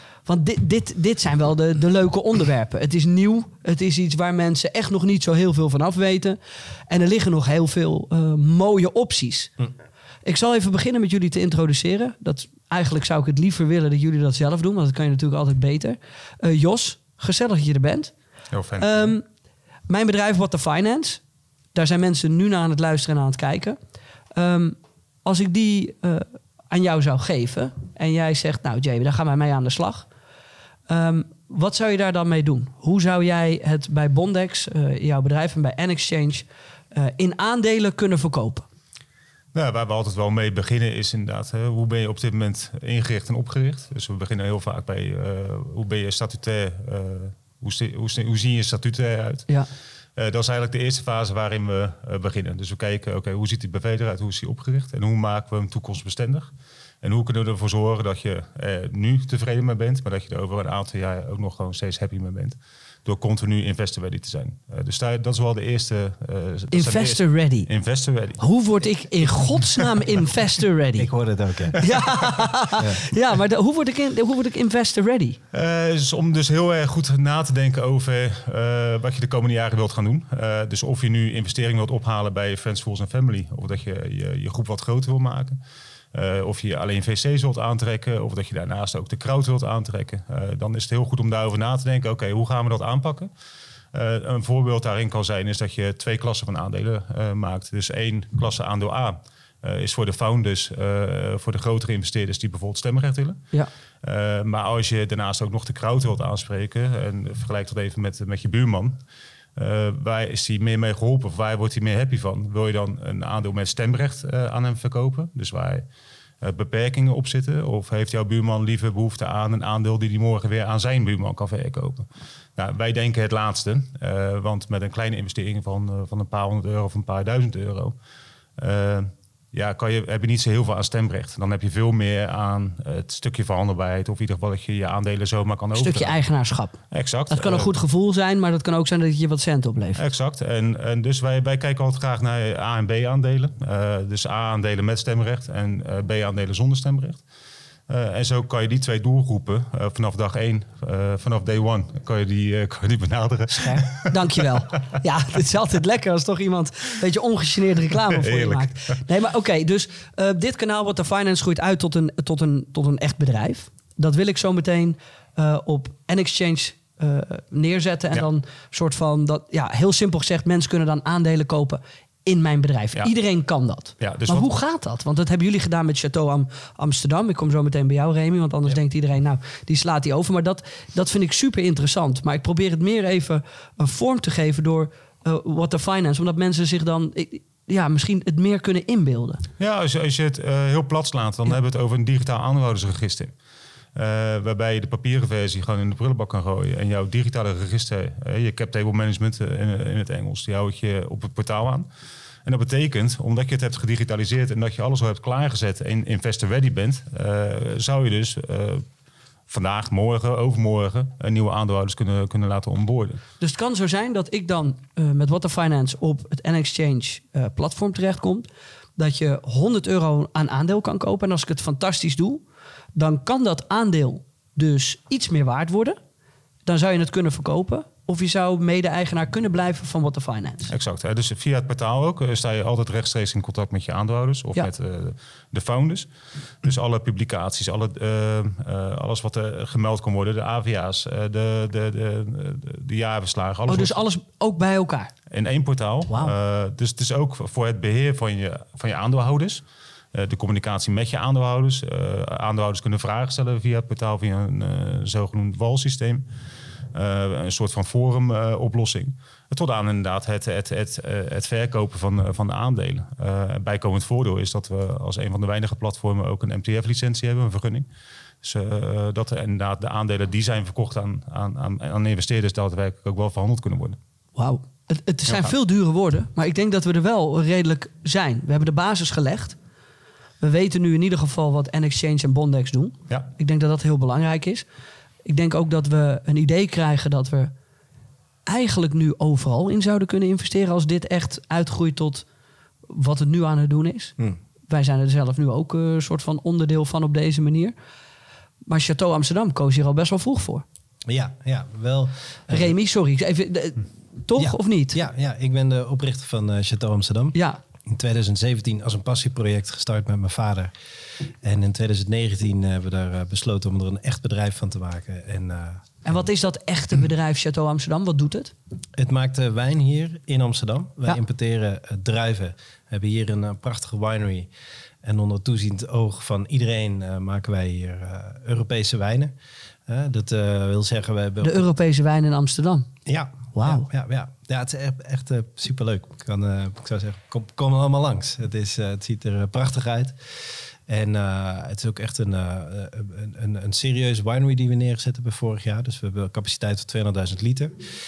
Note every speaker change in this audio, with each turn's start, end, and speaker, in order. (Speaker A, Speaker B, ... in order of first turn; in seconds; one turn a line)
Speaker A: 0.3-6.4
Speaker A: 6.9-9.5
Speaker A: 10.2-18.1
Speaker B: 18.5-19.1
Speaker A: 18.8-19.2
Speaker A: 19.9-21.2
Speaker A: 21.7-23.8
Speaker A: 24.3-30.1
Speaker A: 30.9-38.7
Speaker B: 39.5-49.5
Speaker B: 50.2-56.5
Speaker B: 57.0-68.4
Speaker A: 66.7-67.7
Speaker A: 68.4-71.1
Speaker B: 69.5-70.0
Speaker C: 71.0-71.8
Speaker A: 71.8-75.4
Speaker B: 71.9-72.4
Speaker C: 72.8-73.0
Speaker B: 75.5-85.6
Speaker B: 86.1-93.3
Speaker B: 93.9-103.4
Speaker B: 104.0-109.0
Speaker B: 109.6-115.9
Speaker B: 116.4-128.0
Speaker B: 128.6-136.2
Speaker A: 135.7-136.8
Speaker B: 136.9-137.7
Speaker A: 137.3-140.0
Speaker B: 140.0-147.2
Speaker B: 147.9-154.3
Speaker A: 153.5-189.4
Speaker B: 158.2-159.0
Speaker B: 174.0-174.5
Speaker B: 189.6-193.3
Speaker B: 193.9-201.9
Speaker B: 202.4-208.8
Speaker B: 209.5-213.2
Speaker A: 213.4-222.4
Speaker A: 222.9-226.0
Speaker A: 226.7-230.7
Speaker B: 230.7-236.1
Speaker B: 236.6-244.0
Speaker A: 243.7-245.1
Speaker B: 245.3-256.2
Speaker A: 246.1-246.3
Speaker B: 256.9-267.9
Speaker B: 268.4-274.0
Speaker A: 274.4-279.6
Speaker B: 275.3-275.5
Speaker A: 280.4-284.7
Speaker A: 285.2-287.5
Speaker A: 288.5-292.3
Speaker A: 292.9-294.1
Speaker A: 294.7-297.7
Speaker A: 298.7-300.6
Speaker C: 301.1-302.8
Speaker A: 302.5-305.0
Speaker C: 304.4-316.2
Speaker A: 307.4-307.6
Speaker A: 316.0-318.5
Speaker C: 319.0-324.5
Speaker C: 325.0-329.3
Speaker C: 329.9-331.7
Speaker A: 331.4-332.9
Speaker C: 333.1-340.2
Speaker A: 333.6-333.9
Speaker C: 340.9-347.7